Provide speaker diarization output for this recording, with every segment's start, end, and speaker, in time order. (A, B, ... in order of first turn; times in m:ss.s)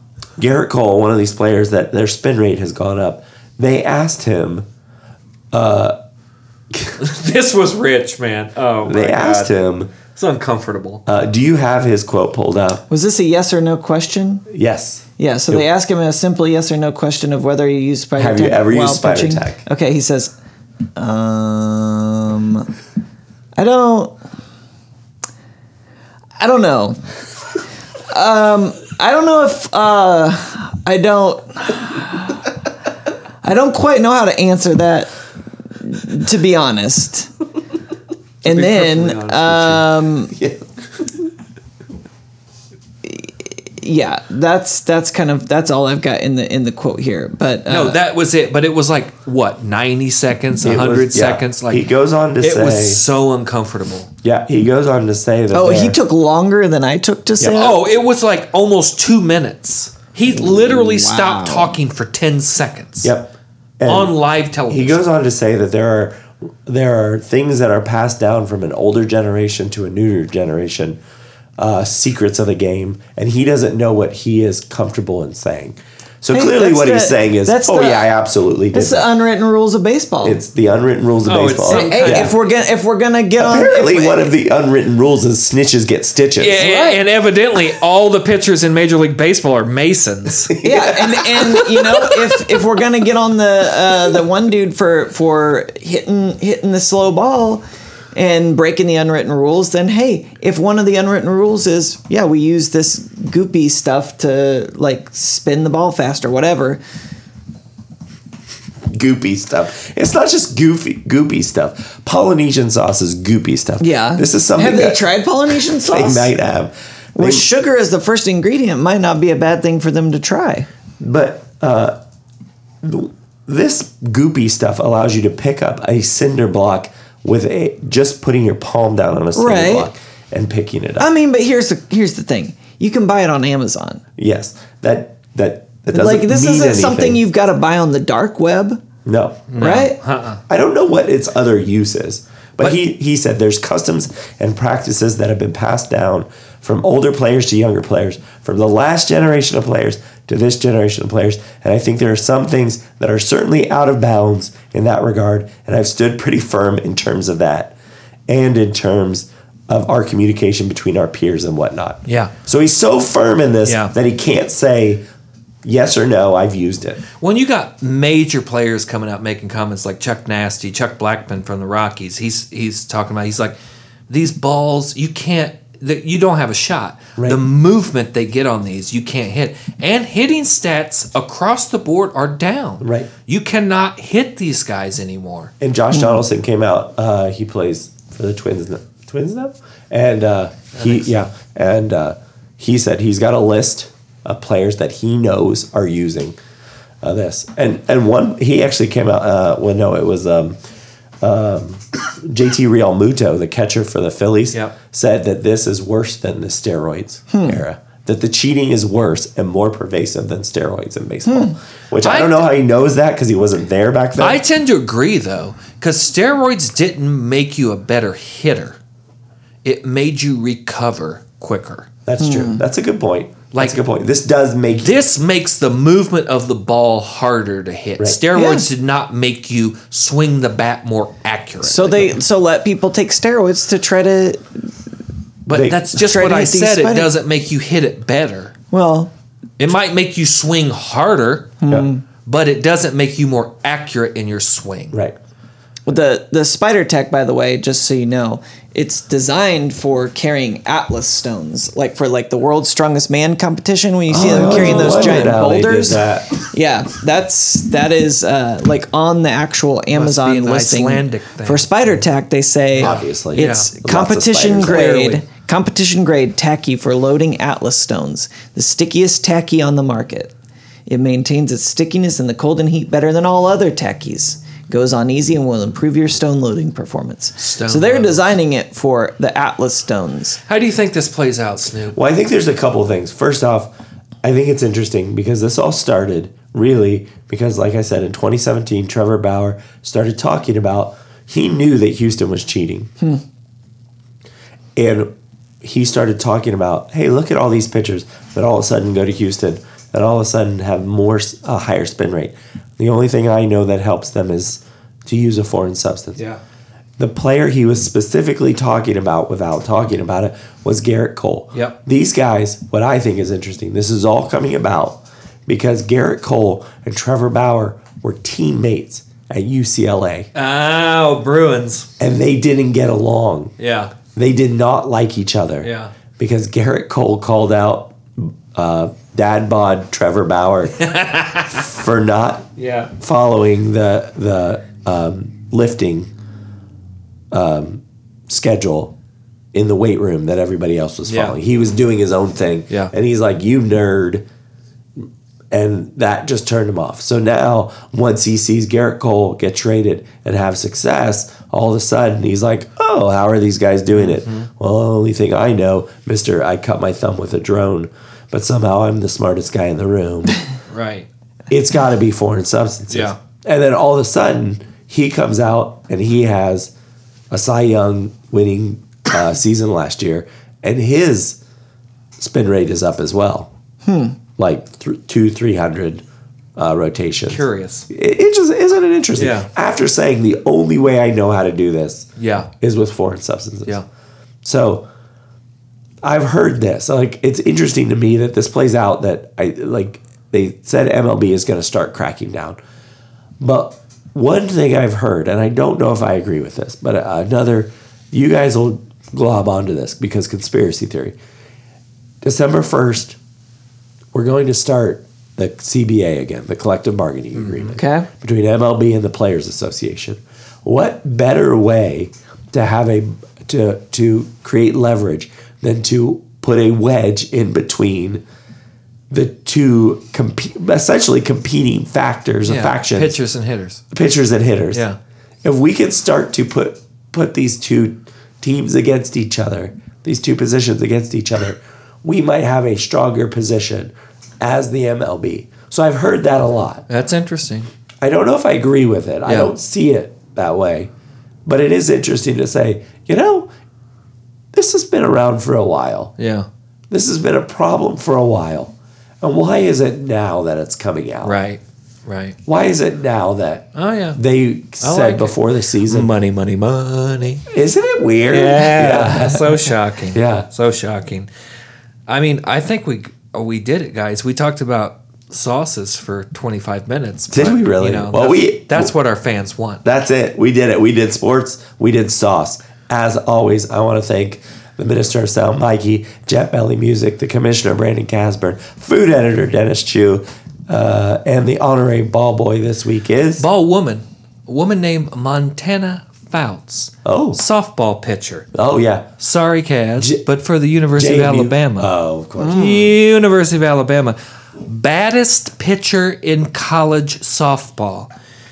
0:00.4-0:04.6 A
0:05.5-0:06.0 A
0:07.0-0:11.0 B
0:08.8-0:09.9 A
0:11.1-0:12.8 A
0:12.9-0:14.4 C
0:14.5-0:15.6 A
0:15.2-0:20.3 C
0:18.2-0:19.6 A
0:21.0-0:22.7 C
0:23.6-0:24.2 C
0:26.4-0:27.0 C
0:28.1-0:32.5 C
0:33.4-0:35.1 C
0:35.8-0:37.3 C
0:38.4-0:39.9 B
0:38.4-0:40.3 C
0:40.3-0:41.1 A
0:43.0-0:48.0 C
0:47.7-0:51.8 B
0:50.6-0:53.0 A
0:52.4-0:54.1 B
0:54.2-0:56.0 A
0:55.5-0:57.8 C
0:57.5-1:03.1 B
1:00.3-1:01.7 C
1:03.0-1:04.2 A
1:03.8-1:05.0 B
1:04.7-1:11.0 A
1:11.6-1:19.1 A
1:16.3-1:18.1 C
1:18.7-1:20.4 C
1:20.2-1:22.3 A
1:21.2-1:22.4 B
1:21.7-1:24.3 C
1:23.4-1:26.6 A
1:26.4-1:30.6 B
1:26.6-1:27.0 C
1:30.5-1:31.1 A
1:30.6-1:46.8 C
1:31.5-1:32.6 B
1:48.9-1:55.0 A
1:53.8-1:56.3 C
1:55.7-1:57.4 A
1:57.1-2:00.7 C
2:01.0-2:02.0 A
2:02.8-2:11.1 A
2:09.3-2:09.9 C
2:11.0-2:14.0 C
2:14.2-2:17.2 A
2:15.9-2:18.8 C
2:19.0-2:19.8 A
2:19.5-2:20.4 B
2:19.6-2:20.0 C
2:20.5-2:37.8 A
2:38.3-2:45.0 A
2:42.1-2:42.3 B
2:43.6-2:43.9 B
2:45.6-2:47.0 A
2:47.2-2:53.5 B
2:54.1-3:05.5 B
2:57.2-2:57.4 A
3:02.8-3:03.1 A
3:05.6-3:16.4 A
3:05.9-3:06.2 C
3:10.8-3:11.0 B
3:17.0-3:20.6 A
3:21.2-3:34.4 A
3:27.3-3:27.6 C
3:31.3-3:31.6 C
3:32.0-3:32.5 B
3:34.2-3:38.8 B
3:39.6-3:41.9 B
3:42.0-3:45.0 A
3:42.2-3:42.6 C
3:43.5-3:43.8 B
3:44.8-3:52.2 B
3:48.3-3:48.7 C
3:51.6-3:54.5 C
3:55.5-3:58.5 B
3:55.5-3:55.9 A
3:55.9-3:57.1 C
3:58.7-3:59.1 C
3:59.6-4:01.6 B
4:01.6-4:02.0 C
4:02.2-4:05.0 B
4:05.8-4:30.3 C
4:14.1-4:16.4 A
4:14.2-4:15.2 B
4:19.9-4:21.7 B
4:22.8-4:25.0 A
4:23.4-4:23.7 B
4:24.6-4:25.2 B
4:30.9-4:40.4 C
4:37.4-4:38.2 B
4:40.5-4:42.0 B
4:41.9-4:43.7 A
4:44.2-4:52.9 A
4:54.8-4:55.1 A
4:55.6-5:06.2 A
5:07.0-5:20.3 A
5:20.3-5:21.9 B
5:22.0-5:23.5 A
5:23.6-5:23.9 B
5:24.1-5:30.8 A
5:25.6-5:25.9 B
5:30.8-5:31.6 B
5:31.5-5:32.5 A
5:32.6-5:32.9 B
5:33.0-5:36.1 A
5:37.3-5:38.9 A
5:39.5-5:44.2 A
5:41.1-5:41.4 B
5:45.0-6:00.4 A
5:53.9-5:54.5 B
6:00.7-6:01.1 B
6:01.5-6:06.7 A
6:02.9-6:03.2 B
6:07.3-6:11.4 A
6:12.2-6:13.5 A
6:13.8-6:14.2 C
6:14.4-6:16.0 A
6:16.6-6:23.8 A
6:17.3-6:17.9 B
6:19.2-6:19.5 B
6:22.2-6:22.5 B
6:24.4-6:24.8 A
6:26.0-6:32.6 A
6:33.4-6:41.2 A
6:42.2-6:43.2 A
6:44.1-6:58.2 A
6:47.4-6:47.7 B
6:47.7-6:48.1 C
6:59.1-7:03.2 A
7:02.4-7:03.8 B
7:03.9-7:04.8 A
7:04.7-7:05.0 B
7:05.4-7:16.8 A
7:16.9-7:17.7 B
7:18.0-7:20.9 A
7:19.2-7:19.5 B
7:21.4-7:23.5 A
7:24.5-7:26.1 A
7:26.2-7:26.5 B
7:26.9-7:31.4 A
7:31.2-7:32.4 B
7:32.4-7:36.1 A
7:33.7-7:34.2 B
7:34.8-7:37.4 B
7:37.5-7:39.6 A
7:38.3-7:41.3 B
7:40.1-7:40.5 A
7:42.1-7:49.8 B
7:47.3-7:48.9 A
7:49.8-8:03.5 A
8:03.4-8:08.5 B
8:07.0-8:07.4 A
8:08.5-8:09.1 A
8:09.2-8:11.9 B
8:10.0-8:10.2 A
8:10.9-8:12.7 A
8:12.4-8:12.9 C
8:12.5-8:18.1 B